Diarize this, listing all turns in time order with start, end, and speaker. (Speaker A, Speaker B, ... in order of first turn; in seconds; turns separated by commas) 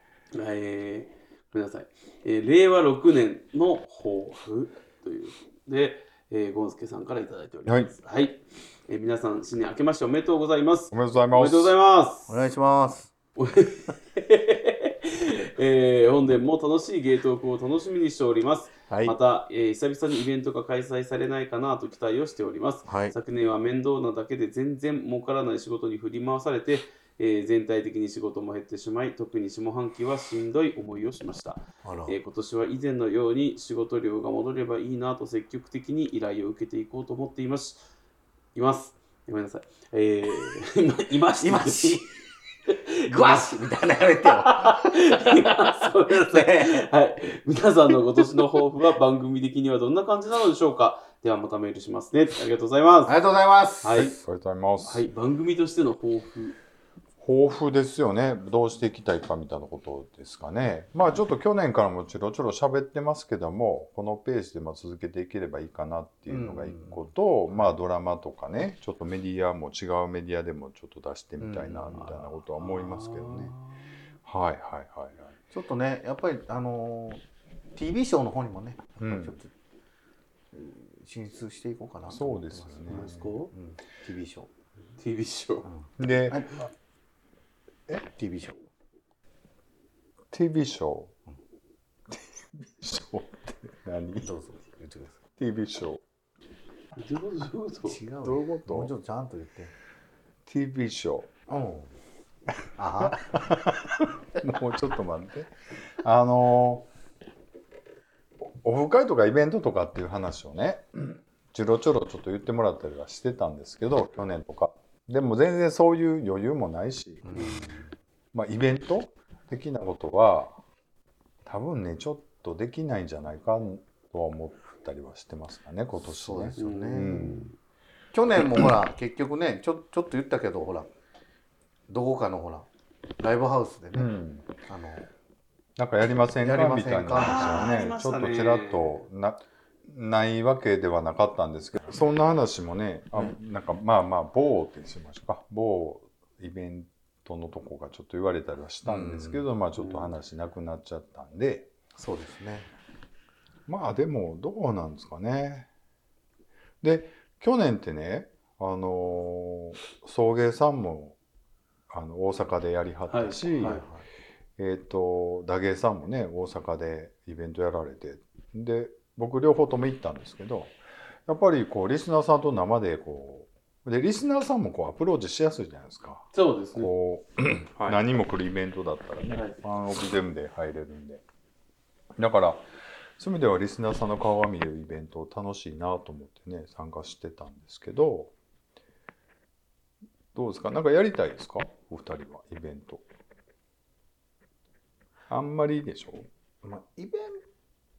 Speaker A: 0.3-12.3, Speaker B: 7.7-7.9, Speaker B: 10.9-11.7, Speaker C: 12.3-13.1, Speaker A: 13.4-37.8, Speaker C: 18.9-19.1, Speaker C: 22.9-23.1, Speaker C: 31.8-32.1, Speaker A: 38.5-42.0, Speaker C: 41.4-42.1, Speaker A: 42.7-43.7, Speaker C: 43.1-45.3, Speaker A: 44.2-53.1, Speaker C: 46.1-46.9, Speaker C: 53.0-54.1, Speaker A: 53.8-54.1, Speaker B: 54.0-55.1, Speaker A: 54.8-56.5, Speaker B: 57.2-73.5, Speaker C: 66.3-67.7, Speaker C: 71.4-72.2, Speaker A: 72.6-73.9, Speaker B: 74.2-75.3, Speaker C: 75.5-77.2, Speaker C: 77.7-79.5, Speaker B: 79.0-79.3, Speaker C: 80.5-84.5, Speaker B: 82.1-83.3, Speaker A: 82.9-83.5, Speaker A: 85.0-85.7, Speaker C: 85.7-86.6, Speaker B: 86.0-86.5, Speaker C: 87.9-88.6, Speaker B: 90.3-91.1, Speaker B: 92.1-94.3, Speaker C: 94.2-95.2, Speaker B: 95.4-96.0, Speaker A: 97.0-98.0, Speaker C: 97.9-99.7, Speaker B: 98.2-98.9, Speaker B: 100.5-101.3, Speaker C: 101.5-101.9, Speaker C: 102.8-103.4, Speaker B: 103.0-106.9, Speaker B: 108.4-117.4, Speaker C: 117.2-117.9, Speaker A: 117.3-117.8, Speaker B: 118.3-120.5, Speaker B: 121.4-127.5, Speaker C: 126.1-127.3, Speaker A: 126.6-127.5, Speaker C: 128.1-130.9, Speaker C: 131.9-132.7, Speaker C: 133.2-134.1, Speaker B: 133.9-134.5, Speaker C: 134.7-135.1, Speaker B: 135.8-151.7, Speaker C: 136.4-137.8, Speaker A: 137.1-139.0, Speaker C: 148.8-149.4, Speaker C: 152.0-152.7, Speaker B: 153.7-155.7, Speaker B: 156.8-161.2, Speaker B: 161.9-163.8, Speaker A: 163.1-163.8, Speaker C: 163.6-164.0, Speaker B: 164.6-170.7, Speaker B: 171.3-181.2, Speaker A: 176.3-176.9, Speaker A: 179.3-179.6, Speaker B: 182.2-182.7, Speaker B: 183.2-188.3, Speaker B: 190.3-193.0, Speaker B: 195.3-196.3, Speaker C: 196.6-197.4